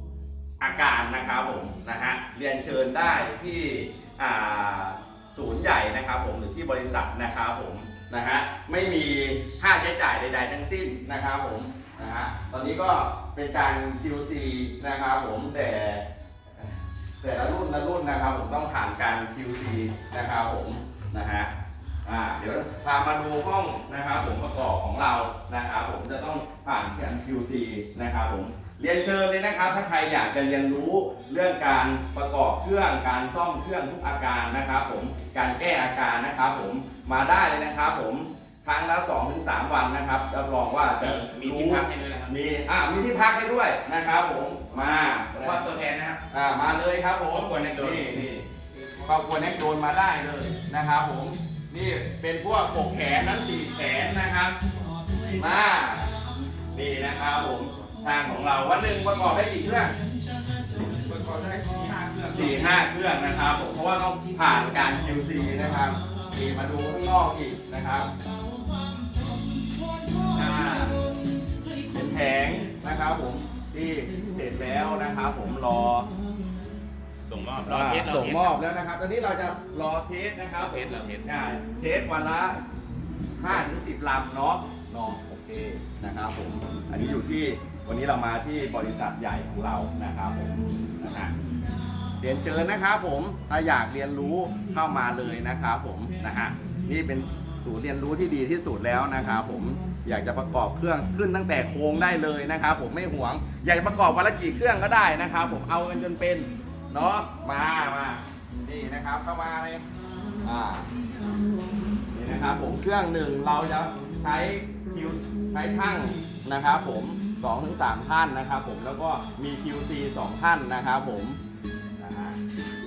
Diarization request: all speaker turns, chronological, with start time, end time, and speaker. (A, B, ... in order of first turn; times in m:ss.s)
0:00.6-0:16.0 A
0:17.2-0:21.5 A
0:22.0-0:48.5 A
0:41.0-0:42.3 B
0:45.1-0:46.2 B
0:47.3-0:48.1 B
0:49.0-0:54.6 A
0:55.3-0:56.1 A
0:56.7-1:00.0 A
1:01.0-1:02.7 B
1:02.2-1:08.1 A
1:10.3-1:11.0 A
1:11.9-1:16.1 A
1:17.3-1:18.5 B
1:17.6-1:22.6 A
1:20.6-1:21.2 B
1:23.4-1:31.3 A
1:32.2-1:49.8 A
1:50.4-1:50.9 A
1:52.1-2:01.4 A
2:02.0-2:02.4 A